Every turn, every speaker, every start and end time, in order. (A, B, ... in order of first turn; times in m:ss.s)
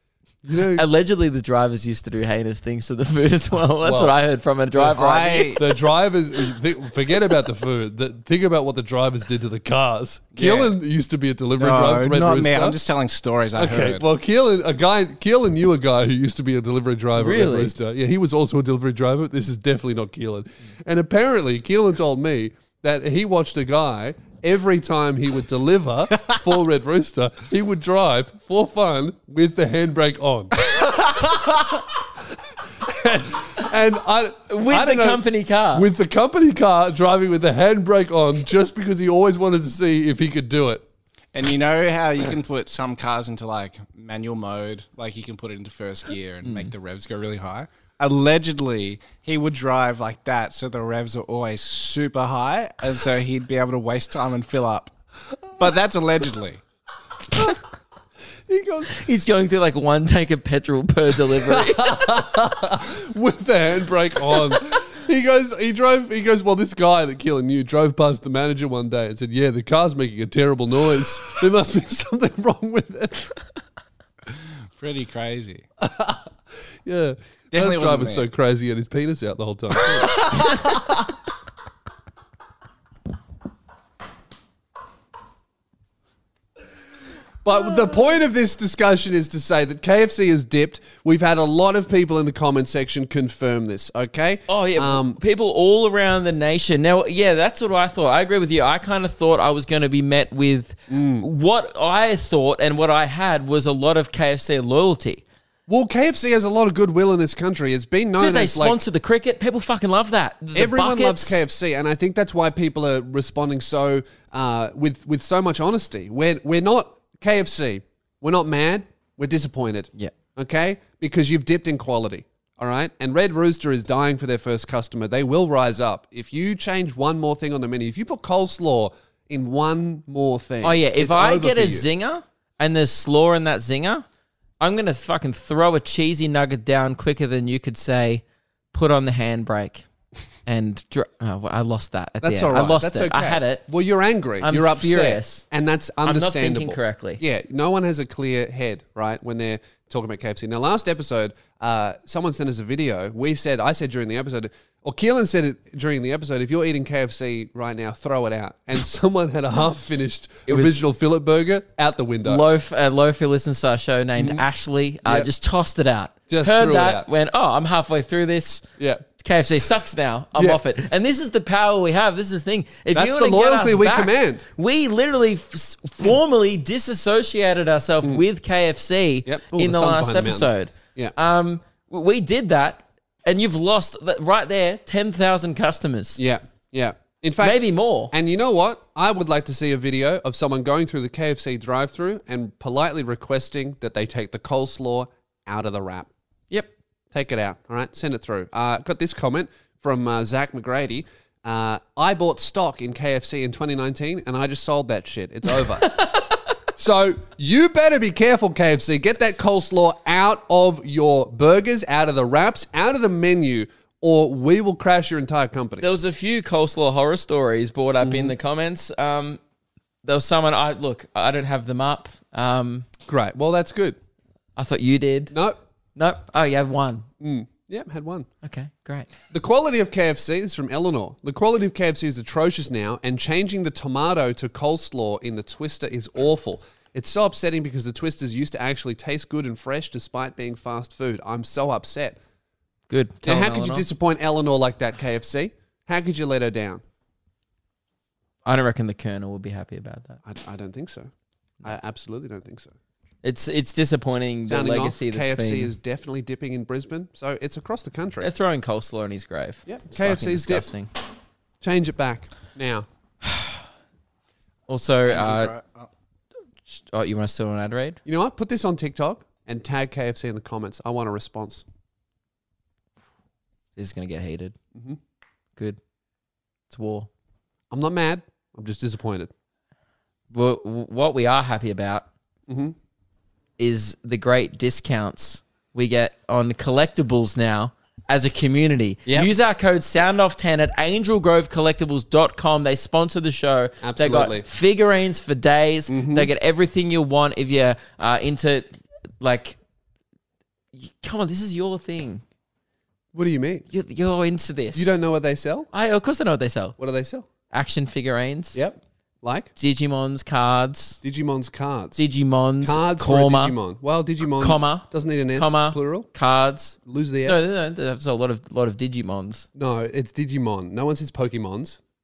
0:00.4-0:00.8 A
0:00.8-0:05.6 B
0:03.8-0:04.2 A
0:04.7-0:12.8 A
0:04.9-0:05.6 C
0:10.3-0:10.7 C
0:11.6-0:14.0 C
0:13.6-0:30.6 A
0:17.2-0:17.7 B
0:32.8-0:40.8 A
0:34.5-0:35.9 B
0:41.3-0:54.9 C
0:55.5-0:56.6 C
0:58.5-0:58.9 A
0:58.9-1:02.1 B
1:01.4-1:13.3 A
1:14.7-1:15.6 C
1:15.8-1:16.3 A
1:16.8-1:20.2 A
1:17.5-1:18.2 C
1:27.4-1:35.2 A
1:34.5-1:45.2 B
1:40.9-1:41.2 A
1:45.7-1:48.8 A
1:48.2-1:51.4 B
1:50.5-2:11.8 A
2:10.6-2:14.0 B
2:14.6-2:19.8 B
2:20.4-2:23.6 B
2:22.2-2:42.4 A
2:24.4-2:25.4 B
2:26.0-2:27.2 B
2:40.5-2:40.8 B
2:42.2-2:48.6 B
2:44.2-2:44.4 A
2:45.0-2:45.3 A
2:46.3-2:47.1 A
2:48.8-2:49.0 A
2:49.2-3:06.2 B
2:50.3-2:50.6 A
2:52.9-2:54.4 A
2:59.2-3:01.1 A
3:06.2-3:07.6 A
3:07.4-3:08.1 B
3:08.1-3:16.1 A
3:17.1-3:25.9 A
3:25.8-3:26.3 B
3:26.8-3:35.9 A
3:35.8-3:39.4 B
3:38.0-3:38.3 A
3:40.0-3:42.9 B
3:43.1-3:44.0 A
3:44.6-3:45.4 B
3:45.3-3:45.6 A
3:46.0-3:47.1 B
3:47.2-3:48.3 A
3:48.4-3:49.1 B
3:49.3-4:02.2 A
4:02.9-4:03.8 B
4:03.2-4:06.8 A
4:08.4-4:10.2 B
4:10.2-4:11.1 A
4:11.6-4:12.7 A
4:13.2-4:15.7 B
4:14.5-4:18.3 A
4:18.2-4:20.9 B
4:19.7-4:20.7 A
4:21.6-4:22.8 A
4:23.2-4:23.6 B
4:24.7-4:25.5 B
4:25.1-4:25.9 C
4:26.7-4:28.0 B
4:28.0-4:31.6 A
4:33.8-4:34.6 B
4:36.7-4:37.1 B
4:37.7-4:39.3 A
4:40.3-4:42.0 B
4:42.5-4:42.7 A
4:43.6-4:58.7 B
4:53.8-4:54.4 A
4:55.9-4:56.3 A
4:59.2-4:59.6 B
5:00.7-5:02.2 B
5:03.1-5:03.7 A
5:03.7-5:04.9 B
5:04.7-5:05.7 A
5:05.7-5:06.8 B
5:06.8-5:07.2 A
5:07.5-5:08.6 B
5:08.5-5:09.5 A
5:09.6-5:11.0 B
5:11.0-5:12.0 A
5:12.0-5:13.5 B
5:12.6-5:16.1 A
5:14.2-5:19.5 B
5:16.8-5:17.4 A
5:19.6-5:21.8 A